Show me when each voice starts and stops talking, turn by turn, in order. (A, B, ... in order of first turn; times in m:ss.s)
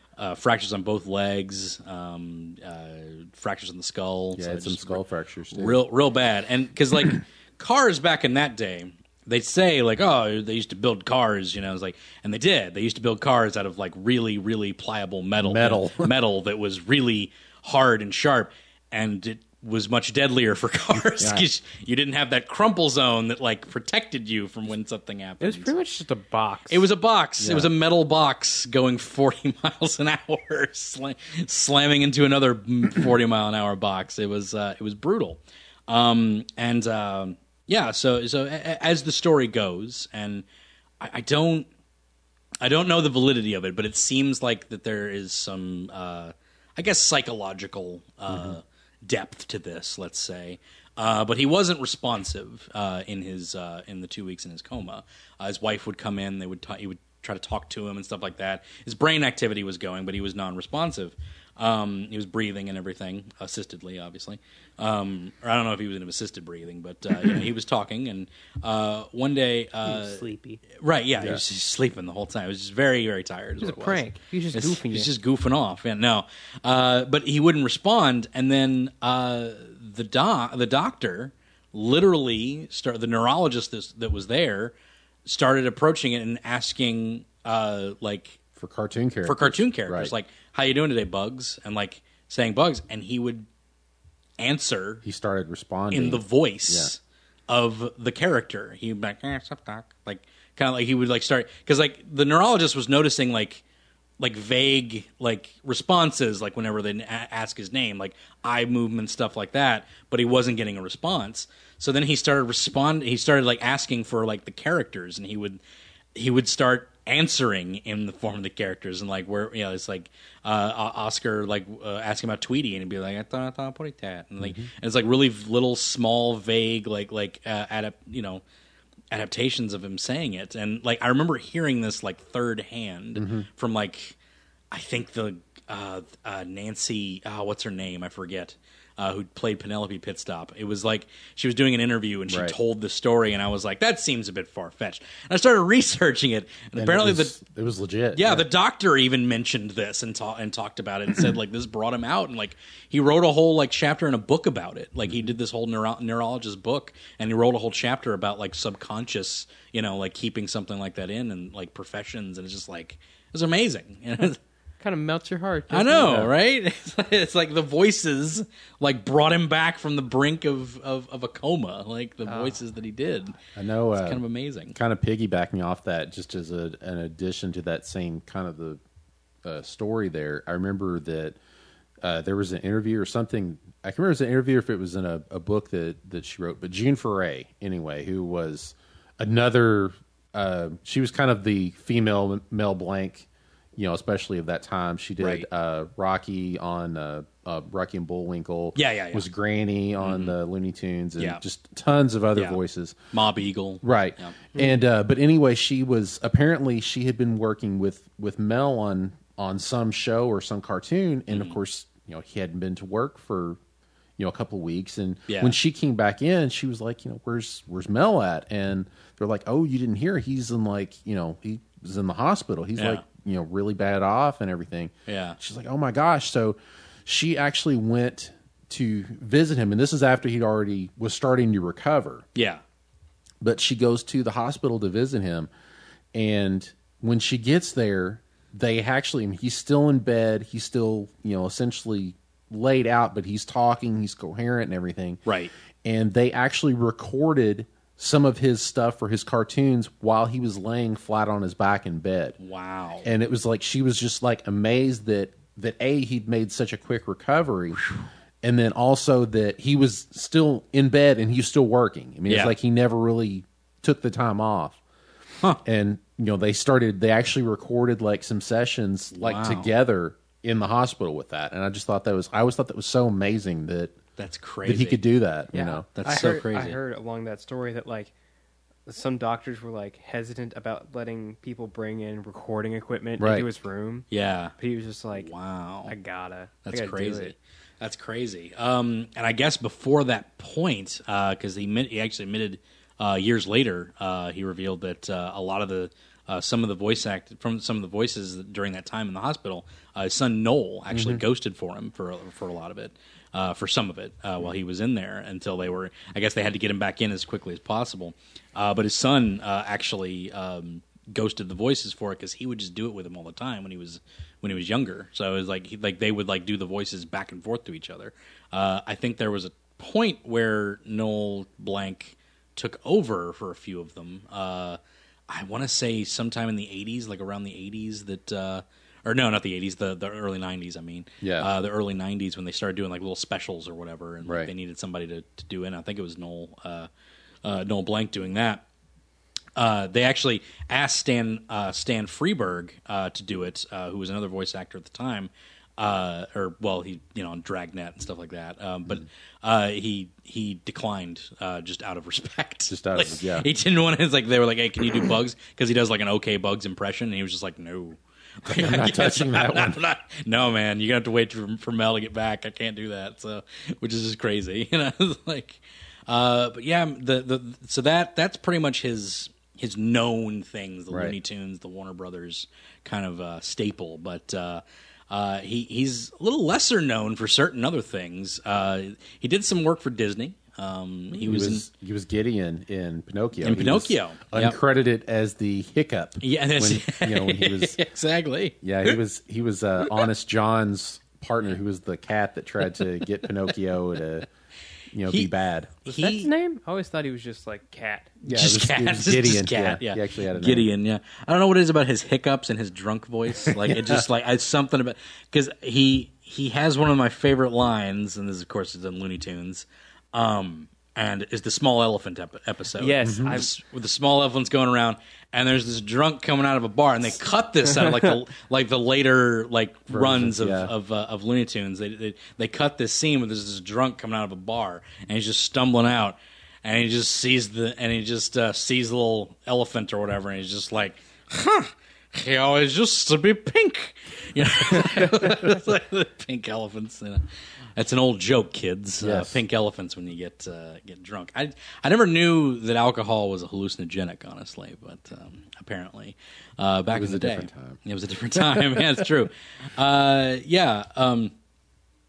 0:00.2-0:05.0 A
0:04.3-0:05.8 B
0:05.5-0:25.7 A
0:15.4-0:16.1 B
0:21.0-0:21.4 B
0:25.4-0:26.8 C
0:26.7-0:40.4 A
0:27.4-0:27.7 B
0:41.0-0:41.7 A
0:42.6-1:10.2 A
0:48.3-0:48.6 B
1:09.8-1:10.6 C
1:10.7-1:24.7 A
1:13.6-1:15.1 C
1:25.2-1:28.4 A
1:28.6-1:30.1 B
1:29.2-1:33.5 A
1:34.4-1:35.0 A
1:35.0-1:36.9 B
1:35.9-1:43.6 A
1:44.2-1:55.6 A
1:56.1-2:08.4 A
2:04.4-2:04.7 B
2:09.1-2:14.2 A
2:13.2-2:13.4 B
2:14.7-2:27.4 A
2:22.3-2:22.6 B
2:26.8-2:28.5 B
2:28.1-2:44.4 A
2:44.8-2:46.2 C
2:45.7-2:53.4 A
2:46.0-2:46.3 B
2:52.3-2:52.6 C
2:53.5-2:54.2 B
2:54.0-2:54.8 A
2:54.7-2:58.8 B
2:59.4-3:01.4 B
3:02.0-3:23.0 B
3:15.2-3:15.4 A
3:18.8-3:19.2 A
3:20.0-3:20.4 A
3:23.1-3:24.4 A
3:23.8-3:33.6 B
3:31.3-3:31.6 A
3:34.2-3:52.2 B
3:35.3-3:35.6 A
3:42.8-3:43.0 A
3:45.1-3:45.4 A
3:53.4-3:55.5 B
3:56.1-4:05.2 B
4:05.2-4:05.5 A
4:05.8-4:12.4 B
4:12.4-4:13.1 A
4:13.0-4:17.8 B
4:18.4-4:24.8 B
4:22.3-4:22.5 A
4:25.6-4:34.0 B
4:29.1-4:29.7 A
4:34.2-4:35.0 A
4:34.6-4:35.9 B
4:35.5-4:38.1 C
4:35.9-4:36.8 A
4:38.9-4:44.0 C
4:43.2-4:43.5 B
4:44.1-4:44.5 A
4:44.6-4:45.3 C
4:45.1-4:45.9 A
4:45.8-4:47.3 C
4:46.6-5:36.9 A
5:00.9-5:01.2 B
5:31.2-5:31.5 B
5:34.2-5:34.5 B
5:37.4-5:38.6 A
5:39.6-6:21.6 A
5:52.7-5:53.5 B
5:58.5-5:59.8 B
6:10.9-6:11.2 B
6:21.1-6:27.8 B
6:23.4-6:24.6 A
6:26.2-6:29.0 A
6:28.6-6:34.3 B
6:34.9-6:35.7 B
6:35.8-6:36.3 A
6:35.9-6:38.2 C
6:38.2-6:40.7 B
6:38.2-7:17.2 A
6:43.4-6:44.0 B
6:52.8-6:53.5 C
6:53.0-6:53.4 B
6:59.9-7:00.7 B
7:17.8-7:31.3 A
7:19.0-7:19.4 B
7:26.9-7:27.8 B
7:28.4-7:28.9 B